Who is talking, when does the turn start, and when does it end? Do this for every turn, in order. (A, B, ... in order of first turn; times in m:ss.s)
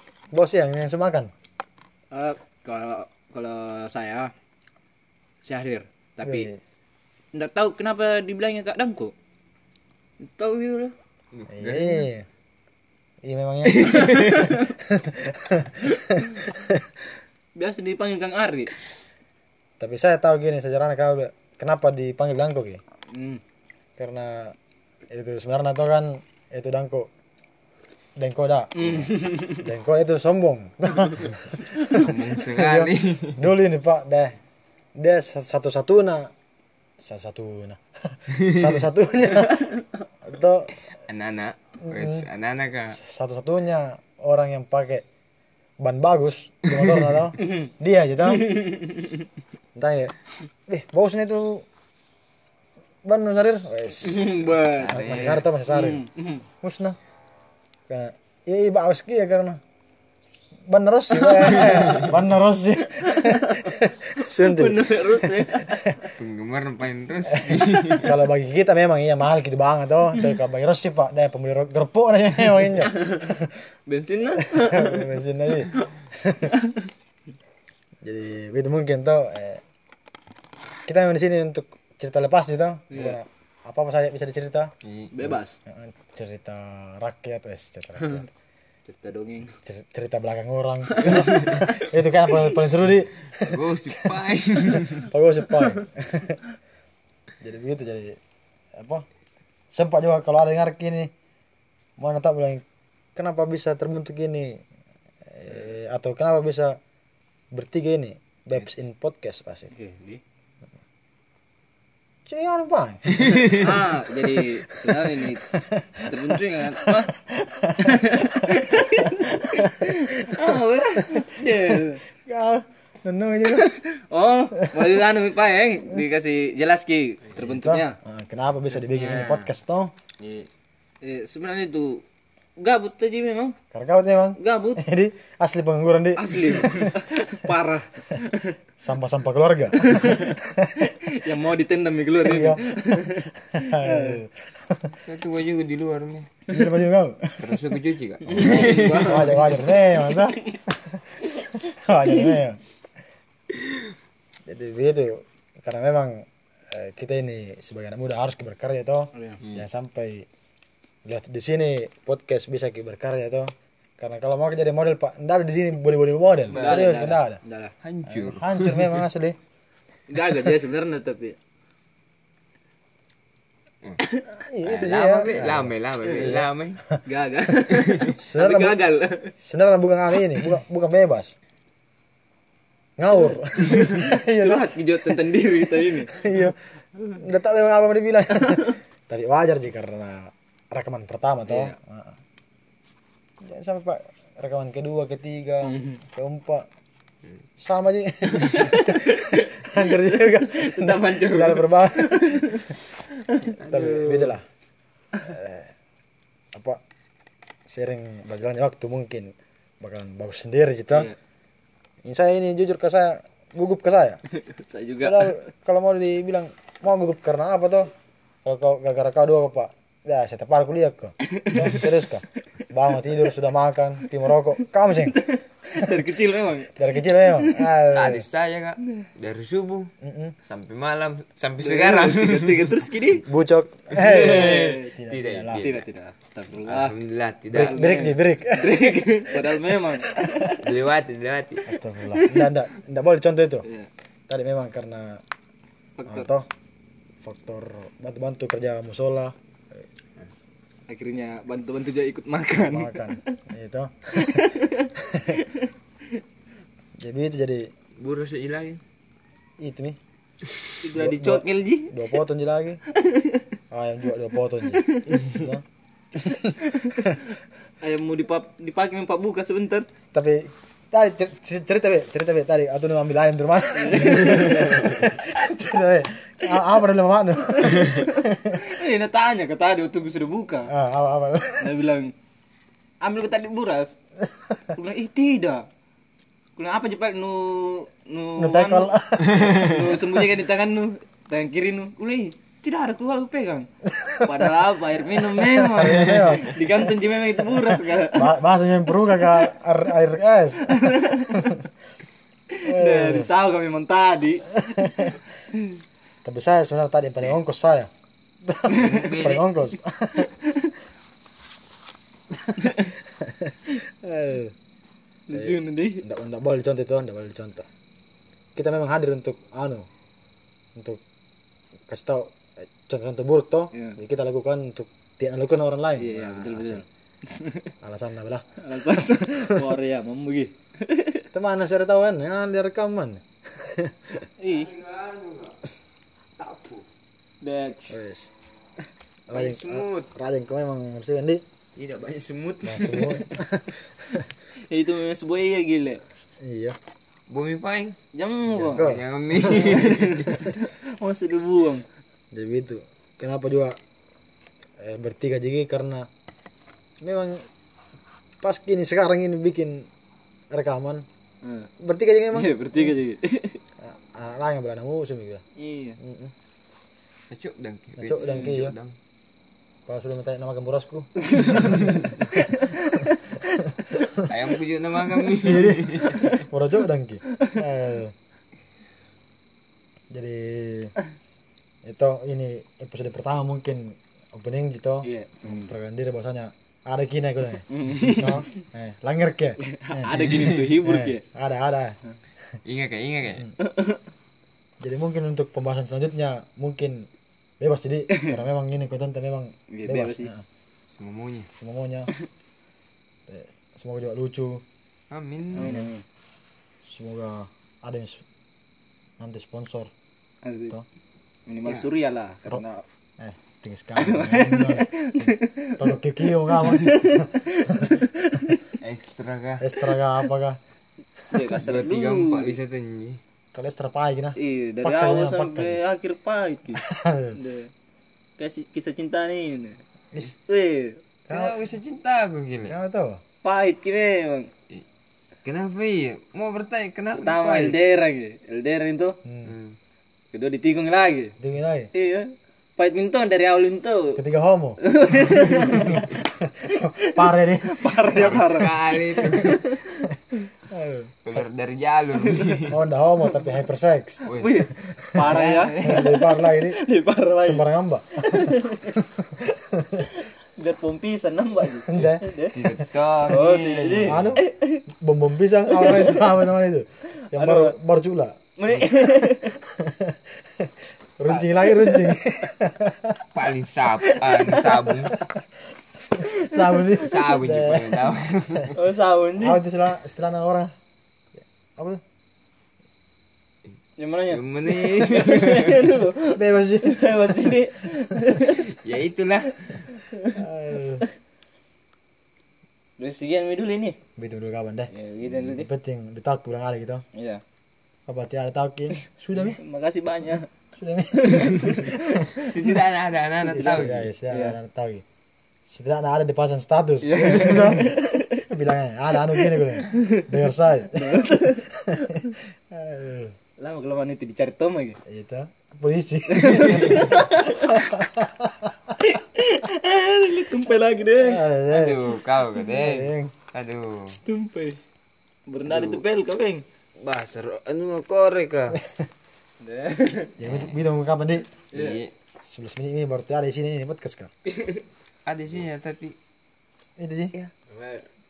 0:00.3-0:01.3 A
0:02.1-0:04.3 B
0:05.4-0:06.5 B
0:06.2-0:06.6 A
0:07.3-0:09.1 B
0:10.3-0:11.0 B
0:11.3-0:12.1 C
0:11.5-0:12.3 A
0:13.2-0:16.8 A
0:13.7-0:14.6 C
0:14.2-0:14.6 B
0:17.6-0:18.7 B
0:19.8-0:22.8 A
0:23.1-0:23.4 B
0:24.0-0:24.6 A
0:25.1-0:27.1 A
0:28.2-0:34.4 A
0:28.8-0:29.7 B
0:31.9-0:33.4 C
0:35.0-0:36.3 A
0:37.0-0:40.8 A
0:38.4-0:38.7 C
0:41.1-0:43.0 C
0:41.8-0:42.3 A
0:43.0-0:45.0 A
0:45.8-0:48.6 A
0:46.7-0:47.2 C
0:47.4-0:47.7 B
0:48.4-0:49.2 B
0:49.8-0:50.2 A
0:50.7-0:51.6 A
0:53.0-0:56.1 A
0:54.0-0:56.4 B
0:54.8-0:55.5 C
0:56.6-0:57.0 A
0:57.9-0:59.6 A
1:00.7-1:06.1 A
1:01.2-1:02.0 B
1:01.5-1:02.1 C
1:02.9-1:03.7 B
1:04.3-1:05.7 B
1:06.2-1:08.2 C
1:07.3-1:13.6 A
1:13.0-1:13.3 B
1:13.9-1:15.1 B
1:14.5-1:16.5 A
1:18.0-1:19.6 A
1:20.9-1:24.7 A
1:22.9-1:23.2 B
1:24.8-1:25.1 C
1:25.1-1:25.6 B
1:25.2-1:28.3 A
1:28.9-1:29.5 B
1:29.6-1:34.2 A
1:31.1-1:31.5 B
1:31.1-1:31.7 C
1:33.5-1:35.1 C
1:34.7-1:36.4 A
1:37.4-1:38.2 A
1:38.8-1:39.1 A
1:39.7-1:41.1 A
1:42.0-1:42.6 A
1:43.2-1:44.6 A
1:45.3-1:46.8 A
1:47.5-1:49.7 A
1:49.7-1:50.2 B
1:52.3-2:03.8 A
1:53.2-1:53.7 C
1:53.5-1:55.5 B
1:56.0-1:57.1 B
1:57.8-2:02.0 B
2:03.6-2:08.0 B
2:07.4-2:09.9 A
2:08.7-2:09.5 C
2:10.2-2:10.5 C
2:11.0-2:12.0 B
2:12.6-2:13.6 B
2:13.7-2:17.0 A
2:14.4-2:14.8 B
2:16.2-2:18.6 B
2:18.8-2:20.9 A
2:19.8-2:24.2 B
2:22.2-2:22.6 A
2:23.5-2:25.0 A
2:25.0-2:26.3 C
2:26.5-2:27.7 A
2:27.4-2:29.4 C
2:28.3-2:30.2 B
2:28.4-2:32.6 A
2:34.5-2:40.3 A
2:39.2-2:39.4 B
2:41.0-2:47.4 A
2:46.5-2:47.7 B
2:46.5-2:46.9 C
2:47.8-2:49.0 C
2:48.1-2:49.4 A
2:50.1-2:51.4 B
2:54.3-2:57.0 A
2:54.6-2:56.8 C
2:57.0-2:59.3 B
2:57.8-2:58.1 C
2:58.1-2:58.8 A
2:59.4-3:01.4 A
3:03.0-3:06.6 A
3:03.1-3:06.2 B
3:07.1-3:12.2 A
3:08.4-3:08.7 B
3:11.5-3:11.8 B
3:13.4-3:16.7 A
3:15.6-3:16.0 B
3:17.6-3:22.8 A
3:18.3-3:19.9 B
3:20.5-3:22.7 B
3:23.2-3:23.5 B
3:23.5-3:24.4 C
3:23.5-3:24.4 A
3:25.1-3:25.7 A
3:27.7-3:31.1 A
3:32.0-3:34.2 A
3:34.4-3:35.4 B
3:35.0-3:37.9 A
3:38.4-3:45.2 A
3:41.4-3:41.8 B
3:45.2-3:47.6 B
3:46.8-3:48.3 A
3:47.9-3:49.9 C
3:50.0-3:50.4 A
3:50.4-3:52.8 C
3:51.6-3:53.3 B
3:53.3-3:55.6 A
3:53.9-3:55.8 C
3:54.2-3:54.9 B
3:55.5-3:57.0 B
3:56.6-3:58.0 C
3:57.5-3:59.9 A
3:57.6-4:00.6 B
4:00.6-4:01.6 C
4:01.7-4:03.7 A
4:02.1-4:02.5 B
4:04.3-4:05.2 A
4:06.0-4:06.3 B
4:06.1-4:06.5 A
4:07.2-4:09.4 A
4:10.9-4:13.2 B
4:12.6-4:14.5 A
4:14.2-4:15.7 B
4:15.1-4:15.3 A
4:17.0-4:17.7 A
4:18.0-4:18.8 C
4:19.6-4:20.0 A
4:20.8-4:22.2 B
4:20.9-4:22.8 A
4:23.0-4:23.4 B
4:23.7-4:25.6 A
4:24.9-4:25.2 B
4:26.2-4:27.1 A
4:26.7-4:27.1 B
4:27.8-4:29.9 B
4:30.1-4:38.6 A
4:33.8-4:34.7 B
4:34.2-4:35.0 C
4:37.7-4:40.7 B
4:40.7-4:41.8 A
4:41.6-4:42.1 B
4:43.0-4:44.0 B
4:44.7-4:45.6 B
4:46.6-4:53.7 B
4:48.4-4:50.2 A
4:49.2-4:49.8 C
4:53.9-4:54.5 A
4:54.2-4:58.4 B
4:55.3-4:57.0 A
4:55.8-4:56.4 C
4:57.9-5:01.7 A
5:00.7-5:01.5 B
5:02.6-5:05.1 B
5:02.6-5:03.3 A
5:04.6-5:05.2 A
5:06.2-5:07.9 A
5:08.4-5:10.3 A
5:08.7-5:09.5 C
5:10.3-5:10.7 B
5:12.6-5:12.9 B
5:13.2-5:14.5 A
5:15.3-5:16.0 B
5:15.3-5:17.7 A
5:18.6-5:19.9 A
5:20.8-5:21.0 A
5:21.9-5:26.8 A
5:23.7-5:24.0 B
5:26.0-5:27.7 B
5:27.8-5:29.3 A
5:28.6-5:31.3 B
5:31.3-5:34.2 A
5:34.4-5:34.8 B
5:34.5-5:35.7 C
5:36.4-5:36.8 C
5:37.4-5:38.0 B
5:37.9-5:38.3 A
5:39.3-5:41.4 A
5:39.3-5:40.1 C
5:41.8-5:43.2 C
5:42.6-5:44.2 A
5:44.7-5:46.0 B
5:46.4-5:46.8 A
5:47.3-5:48.0 C
5:48.1-5:48.9 B
5:48.5-5:49.1 A
5:48.8-5:50.4 C
5:49.5-5:51.8 B
5:52.3-5:53.8 A
5:54.8-5:56.1 A
5:57.0-5:57.5 A
5:58.4-5:59.9 A
6:00.5-6:01.0 A
6:01.4-6:01.7 B
6:01.8-6:02.9 A
6:02.3-6:03.6 B
6:03.8-6:05.4 A
6:05.6-6:06.0 B
6:06.0-6:06.3 A
6:07.3-6:09.0 C
6:08.0-6:08.8 A
6:08.2-6:08.5 B
6:09.9-6:12.1 A
6:11.3-6:13.2 B
6:14.2-6:16.2 C
6:15.4-6:18.1 A
6:20.1-6:20.9 A
6:21.9-6:32.0 A
6:25.0-6:25.7 B
6:27.7-6:28.5 B
6:29.6-6:31.2 B
6:32.6-6:33.5 C
6:33.6-6:34.0 B
6:34.8-6:37.1 A
6:37.6-6:40.4 A
6:38.1-6:38.4 B
6:39.7-6:40.3 B
6:40.9-6:41.5 C
6:41.5-6:42.1 A
6:43.3-6:44.6 A
6:45.1-6:45.8 C
6:45.5-6:45.9 A
6:45.6-6:46.0 B
6:46.9-6:48.2 A
6:49.2-6:49.9 A
6:50.4-6:50.8 B
6:51.5-6:52.8 B
6:51.6-6:51.9 C
6:53.2-6:58.6 A
6:54.0-6:55.9 B
6:56.5-6:58.6 B
6:58.8-6:59.6 C
6:59.6-7:00.6 A
7:01.3-7:02.6 B
7:01.5-7:03.2 C
7:03.5-7:05.8 A
7:04.4-7:06.8 B
7:06.8-7:07.4 A
7:07.3-7:07.7 B
7:08.4-7:11.0 B
7:11.3-7:11.6 A
7:11.3-7:12.8 C
7:12.6-7:13.2 A
7:13.4-7:14.5 B
7:15.4-7:17.8 C
7:17.1-7:19.2 B
7:19.2-7:19.6 A
7:19.4-7:19.8 C
7:20.3-7:21.4 B
7:21.4-7:21.9 A
7:21.9-7:24.2 B
7:24.2-7:28.6 A
7:24.8-7:26.1 B
7:27.0-7:30.0 B
7:28.1-7:29.8 C
7:30.7-7:31.4 A
7:31.2-7:32.8 C
7:32.2-7:32.6 B
7:32.7-7:34.3 A
7:34.3-7:34.7 C
7:34.4-7:39.0 B
7:34.8-7:36.8 A
7:35.2-7:36.1 C
7:37.4-7:40.1 A
7:40.1-7:42.6 B
7:41.9-7:42.2 A
7:42.0-7:44.4 C
7:43.3-7:44.8 B
7:44.0-7:44.5 A
7:45.0-7:48.4 A
7:45.7-7:46.2 B
7:47.2-7:47.7 B
7:48.6-7:49.6 B
7:49.8-7:53.2 A
7:51.3-7:52.1 B
7:53.3-7:55.2 C
7:54.1-7:54.7 B
7:56.2-7:58.1 A
7:56.3-7:56.9 B
7:57.0-7:58.8 C
7:58.8-7:59.6 B
7:59.4-8:00.7 A
8:04.0-8:08.7 B
8:04.3-8:06.0 C
8:06.3-8:07.9 A
8:08.5-8:09.9 C
8:10.4-8:11.0 A
8:13.0-8:14.0 B
8:14.2-8:17.0 A
8:14.9-8:15.7 B
8:17.2-8:17.4 B
8:18.1-8:19.6 A
8:19.6-8:20.5 B
8:20.8-8:22.0 A
8:21.2-8:22.8 B
8:22.4-8:24.1 C
8:23.4-8:24.6 B
8:23.5-8:25.0 A
8:25.7-8:33.4 A
8:27.0-8:28.4 B
8:29.4-8:30.1 B
8:30.9-8:31.7 B
8:33.6-8:35.0 B
8:35.1-8:38.9 A
8:36.3-8:37.9 B
8:36.6-8:37.0 C
8:39.0-8:41.4 B
8:41.2-8:42.0 A
8:41.7-8:44.2 C
8:42.7-8:43.3 A
8:44.2-8:44.8 B
8:45.5-8:46.6 B
8:45.6-8:46.0 C
8:47.0-8:48.8 C
8:49.6-8:50.4 B
8:50.4-8:51.5 A
8:50.4-8:50.8 C
8:51.7-8:52.0 B
8:51.7-8:52.1 C
8:52.4-8:54.3 A
8:55.3-8:56.2 C
8:57.0-8:57.3 A
8:57.7-8:58.1 B